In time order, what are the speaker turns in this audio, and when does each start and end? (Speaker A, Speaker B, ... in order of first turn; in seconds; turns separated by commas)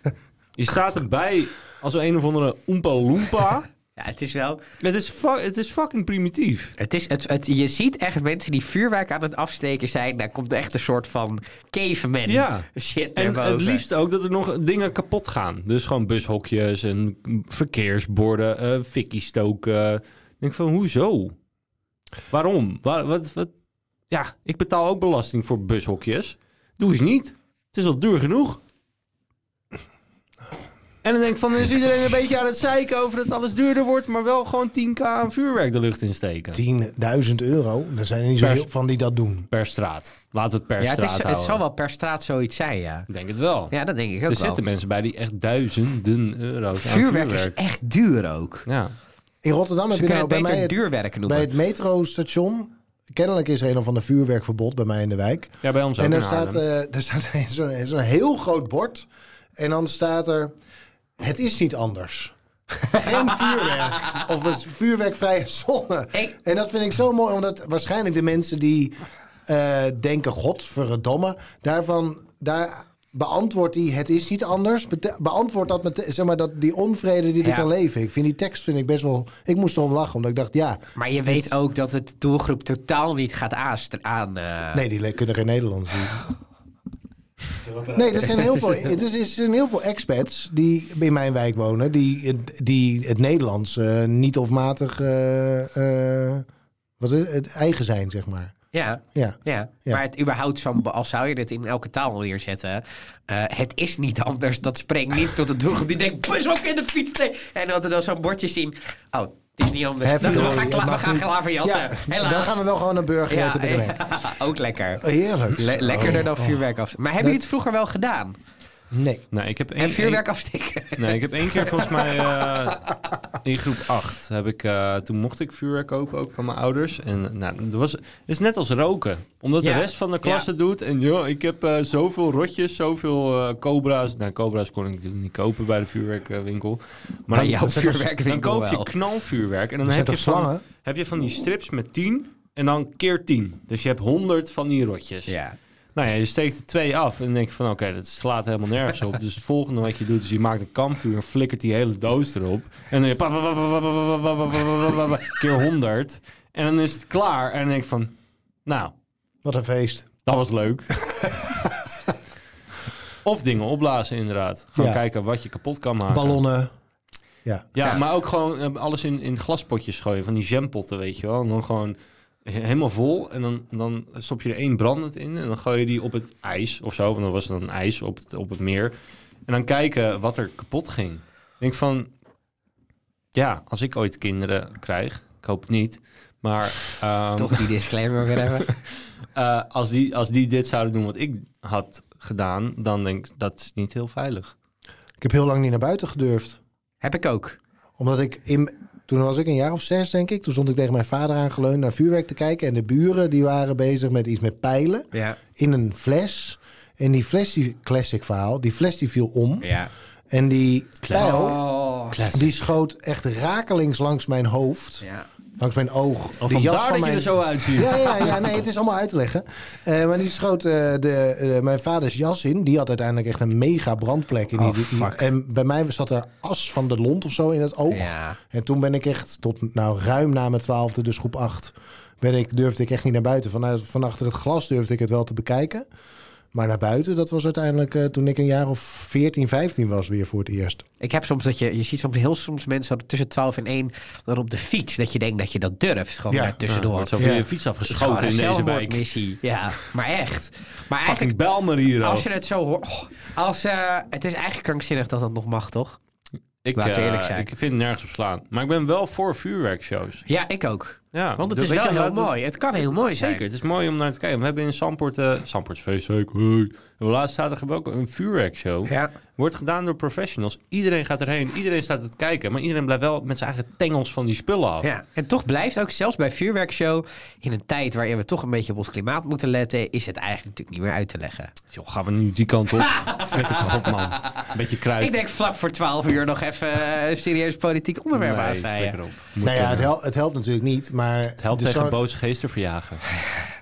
Speaker A: 0.6-3.7, Speaker B: 4.0-4.6, Speaker A: 4.8-6.8, Speaker B: 6.8-13.8, Speaker A: 12.2-21.3, Speaker A: 22.3-23.5, Speaker A: 24.1-28.6, Speaker A: 31.0-36.6, Speaker C: 36.5-39.5, Speaker A: 39.5-41.6, Speaker B: 40.8-43.1, Speaker A: 43.1-43.7, Speaker B: 43.7-44.6, Speaker A: 44.3-47.5, Speaker B: 46.8-48.6, Speaker A: 48.7-48.9, Speaker C: 49.4-60.5, Speaker B: 49.9-51.5, Speaker A: 55.6-56.6, Speaker C: 61.2-62.3, Speaker C: 62.9-81.6, Speaker B: 62.9-64.2, Speaker B: 81.0-84.8, Speaker C: 84.7-86.2, Speaker C: 87.8-96.4, Speaker C: 97.0-98.5, Speaker B: 98.7-112.6, Speaker C: 99.1-100.0, Speaker C: 110.0-114.3, Speaker B: 113.3-118.4, Speaker C: 115.0-116.6, Speaker C: 118.9-119.2, Speaker A: 119.3-120.2, Speaker B: 119.8-122.1, Speaker A: 121.0-145.3, Speaker B: 129.6-130.4, Speaker B: 137.3-138.9, Speaker C: 139.8-140.6, Speaker B: 145.3-145.6, Speaker A: 145.9-158.1, Speaker A: 158.7-158.9, Speaker C: 159.4-160.1, Speaker A: 160.2-160.9, Speaker C: 161.1-161.9, Speaker A: 163.2-166.4, Speaker C: 166.1-166.7, Speaker C: 167.4-168.0, Speaker A: 167.7-178.9, Speaker A: 179.5-182.1, Speaker A: 183.3-187.7, Speaker B: 187.3-188.7, Speaker A: 189.3-194.5, Speaker C: 195.2-196.6, Speaker B: 197.0-197.6, Speaker C: 198.0-209.7, Speaker B: 205.1-205.4, Speaker B: 209.6-209.9, Speaker C: 210.3-211.6, Speaker A: 211.0-211.5, Speaker B: 211.1-212.2, Speaker A: 212.1-212.5, Speaker C: 212.3-215.0, Speaker C: 215.6-235.9, Speaker A: 216.4-218.3, Speaker B: 224.6-225.2, Speaker B: 227.9-228.4, Speaker C: 236.5-240.8, Speaker B: 241.0-247.2, Speaker C: 246.3-246.6, Speaker A: 246.7-249.0, Speaker C: 247.2-247.4, Speaker B: 247.8-251.4, Speaker A: 251.0-252.2, Speaker B: 252.0-256.0, Speaker A: 256.6-260.2, Speaker B: 256.7-257.5, Speaker B: 260.3-263.4, Speaker A: 261.1-274.9, Speaker B: 268.9-269.1, Speaker B: 274.8-281.5, Speaker A: 281.7-285.2, Speaker B: 282.8-289.0, Speaker A: 288.1-289.9, Speaker C: 289.4-292.0, Speaker A: 291.4-293.1